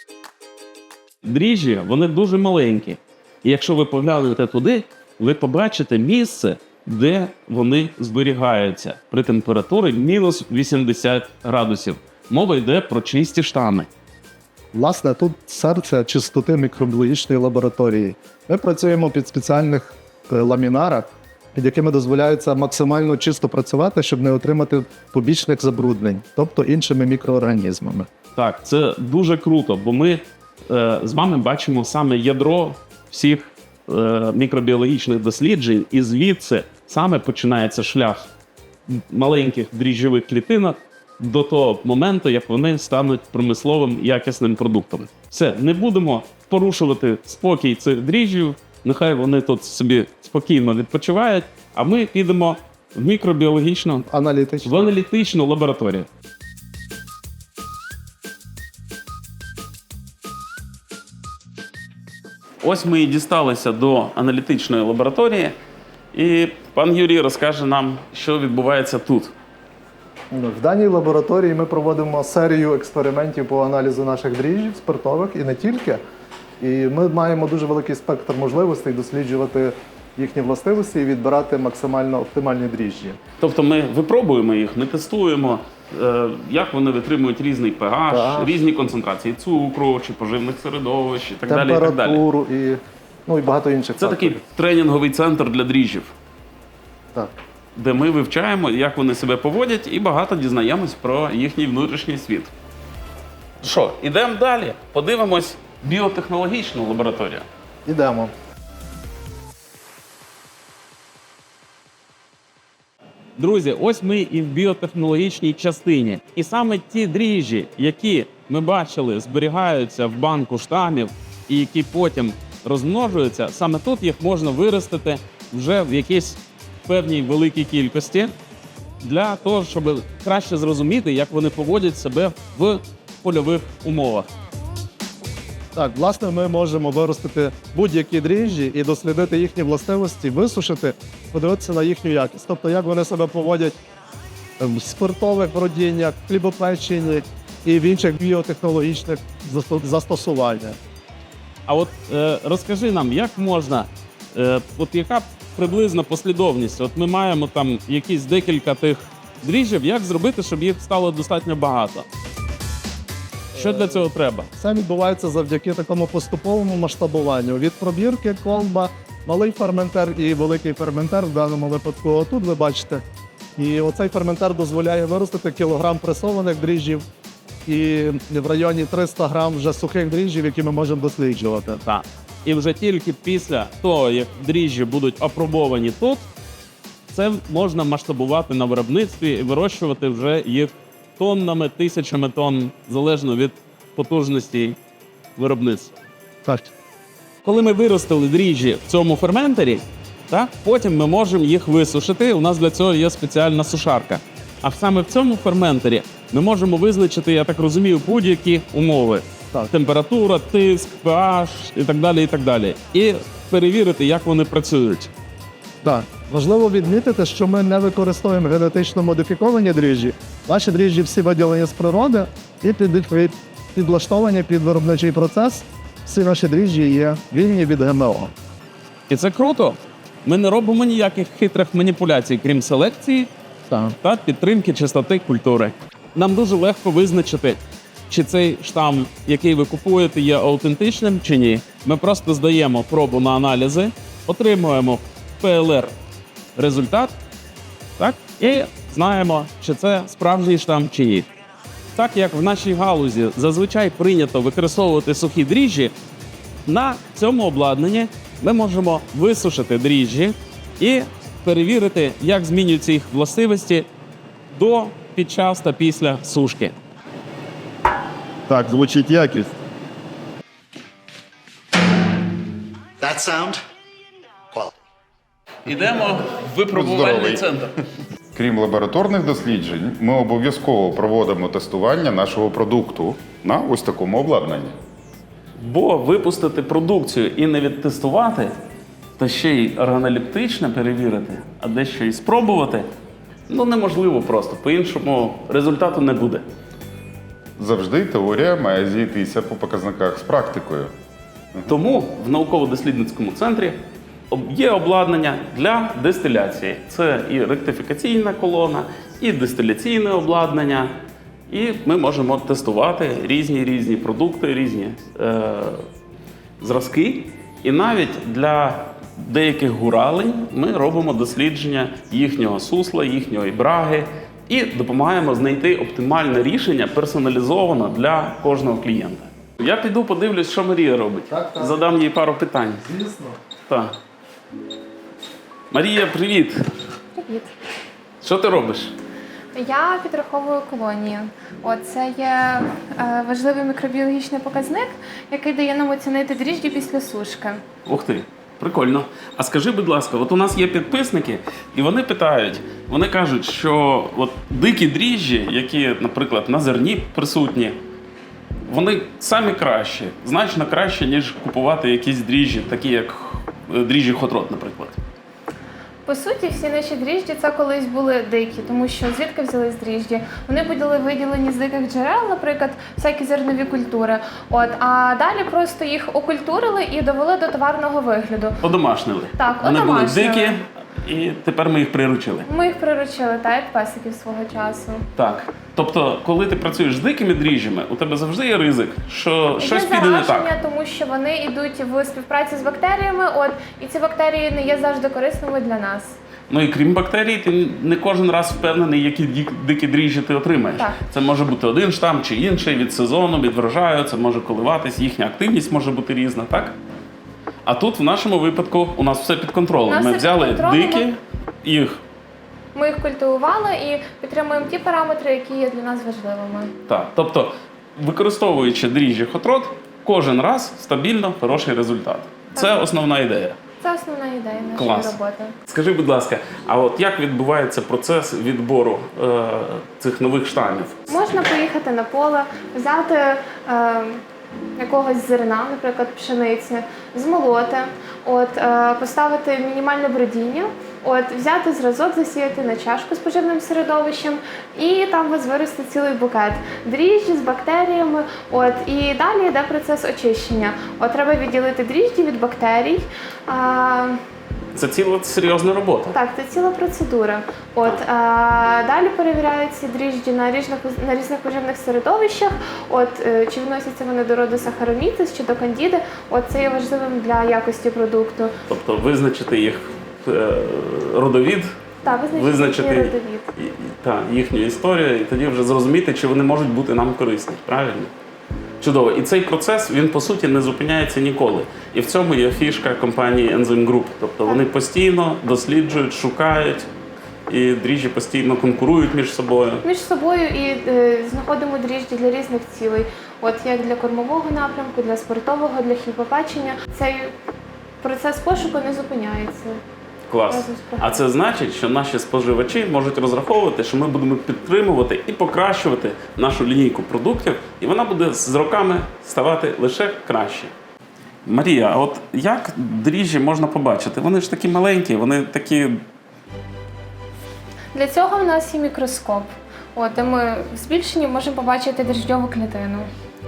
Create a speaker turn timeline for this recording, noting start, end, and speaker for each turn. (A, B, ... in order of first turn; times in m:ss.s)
0:01.2-0:13.9 A
0:14.7-0:28.1 B
0:28.4-0:38.3 A
0:38.9-0:54.1 A
0:54.1-0:54.9 B
0:54.6-0:56.1 A
1:02.6-1:05.6 A
1:06.1-1:09.3 A
1:10.3-1:16.0 B
1:16.6-1:23.2 B
1:23.4-1:32.2 A
1:28.1-1:28.6 B
1:31.5-1:34.4 B
1:34.0-1:36.1 A
1:37.8-1:42.5 A
1:43.6-1:47.5 A
1:47.8-1:48.3 B
1:53.4-2:08.3 A
2:09.0-2:14.3 A
2:15.8-2:23.7 B
2:24.6-2:30.8 B
2:31.7-2:42.1 A
2:43.6-2:53.0 B
2:43.6-2:44.5 A
2:53.6-2:57.0 B
2:57.7-3:01.8 B
3:01.8-3:06.3 A
3:07.1-3:14.8 A
3:15.4-3:15.9 A
3:17.4-3:35.1 A
3:35.8-3:48.3 B
3:49.1-3:53.3 A
3:53.7-3:53.9 B
3:54.0-4:05.9 A
4:06.6-4:07.2 A
4:08.0-4:11.3 A
4:12.0-4:15.9 A
4:16.6-4:23.9 A
4:24.5-4:26.8 A
4:33.0-4:33.6 B
4:35.6-4:37.8 A
4:36.7-4:37.4 C
4:38.4-4:44.8 C
4:45.6-4:48.5 A
4:49.2-4:52.9 A
4:53.5-4:56.4 A
4:57.6-5:00.9 C
5:01.7-5:03.8 A
5:04.3-5:10.9 A
5:11.5-5:15.8 A
5:16.6-5:32.9 A
5:31.3-5:31.8 B
5:32.8-5:33.4 B
5:33.7-5:33.9 A
5:35.7-5:36.6 A
5:37.2-5:37.5 D
5:38.2-5:38.9 A
5:39.5-5:47.6 D
5:47.9-5:57.8 A
5:58.7-6:05.0 A
6:06.0-6:18.6 D
6:18.6-6:22.5 A
6:19.4-6:20.6 D
6:22.5-6:25.0 D
6:25.2-6:30.5 A
6:29.6-6:36.2 D
6:36.5-6:46.8 A
6:47.6-6:52.0 A
6:49.9-6:51.1 D
6:52.7-6:56.8 D
6:56.9-7:03.6 A
7:02.6-7:02.8 D
7:03.8-7:05.6 D
7:04.8-7:11.1 A
7:11.1-7:14.2 D
7:14.8-7:34.2 D
7:34.7-7:36.2 A
7:36.1-7:48.5 D
7:48.7-7:51.7 A
7:52.0-7:53.5 D
7:52.4-7:58.1 A
7:58.8-8:06.9 A
8:07.5-8:09.8 A
8:09.8-8:17.3 D
8:18.0-8:19.8 D
8:20.3-8:30.7 A
8:20.5-8:21.2 D
8:31.4-8:36.0 A
8:37.9-8:43.1 D